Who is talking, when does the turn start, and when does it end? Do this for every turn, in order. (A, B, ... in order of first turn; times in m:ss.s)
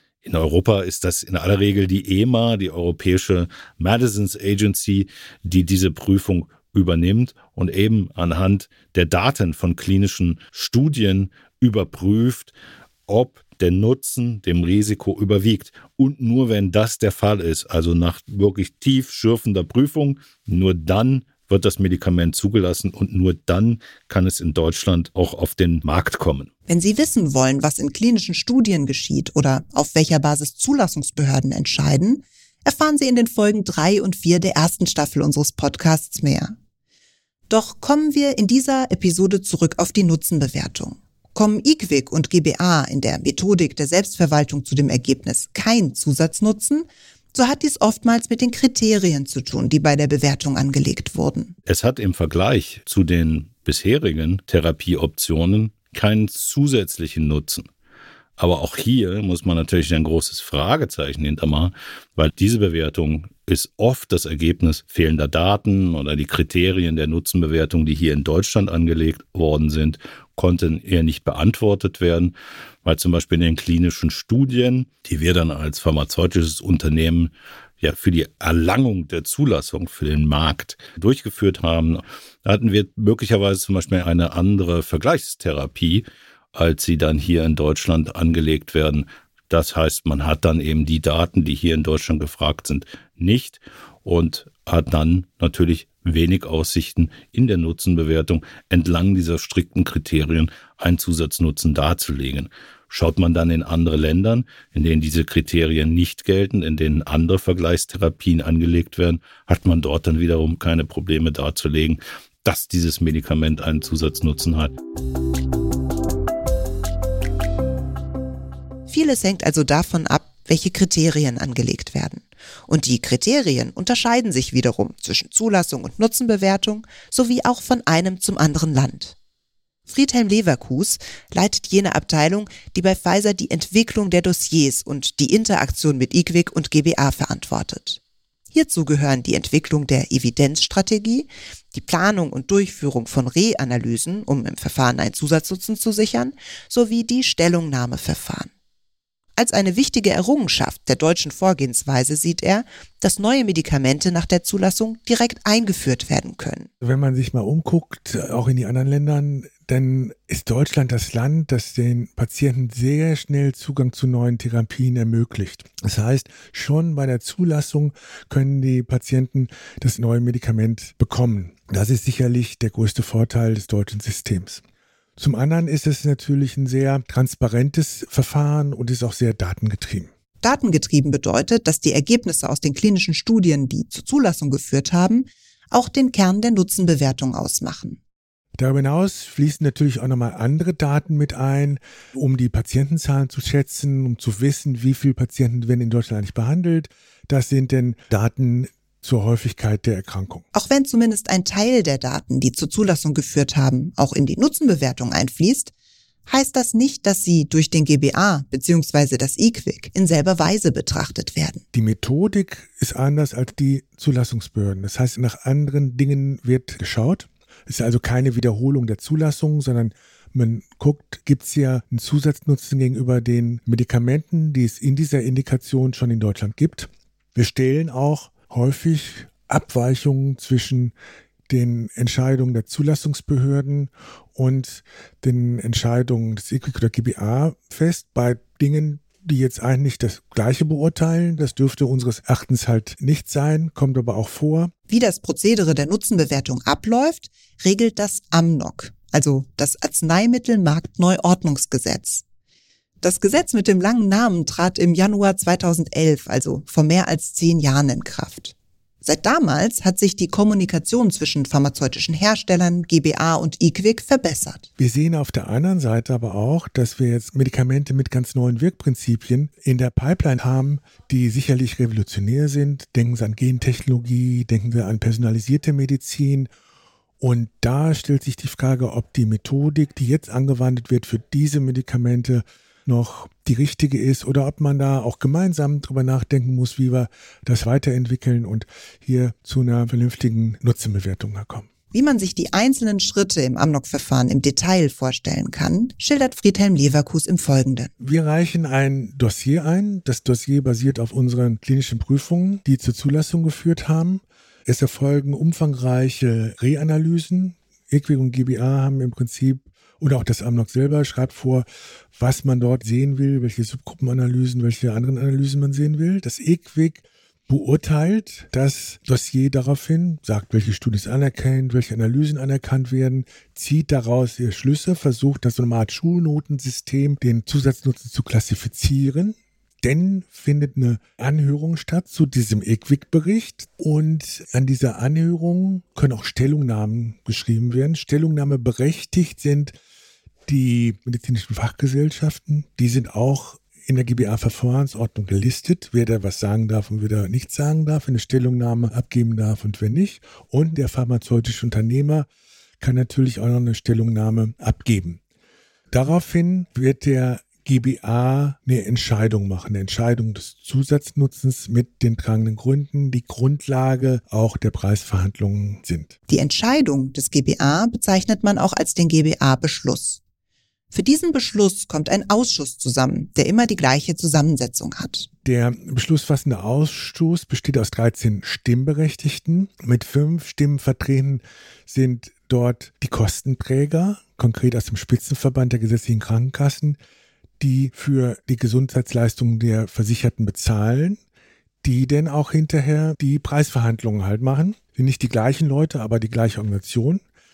0:00.2-0:12.5 A
0:13.1-0:26.5 A
0:26.7-0:36.5 B
0:37.5-0:51.6 B
0:51.6-0:57.7 A
0:58.4-1:54.7 A
1:58.9-2:09.2 B
2:09.9-2:18.0 B
2:18.5-2:28.5 B
2:29.4-2:36.7 B
2:36.8-2:54.6 C
2:55.2-3:00.1 C
3:00.4-3:08.0 B
3:08.6-3:20.4 C
3:20.5-3:25.7 B
3:26.3-3:31.6 B
3:31.7-3:50.9 C
3:51.5-4:04.7 C
4:04.9-4:12.2 B
4:13.0-4:24.7 B
4:24.8-4:36.5 C
4:37.2-4:51.7 C
4:51.9-4:57.9 B
4:58.0-5:39.7 C
5:40.4-5:52.2 C
5:52.8-5:55.2 C
5:55.9-6:06.1 C
6:06.3-6:10.2 B
6:10.9-6:15.3 B
6:15.4-6:27.0 C
6:27.6-6:31.2 C
6:31.8-6:37.2 C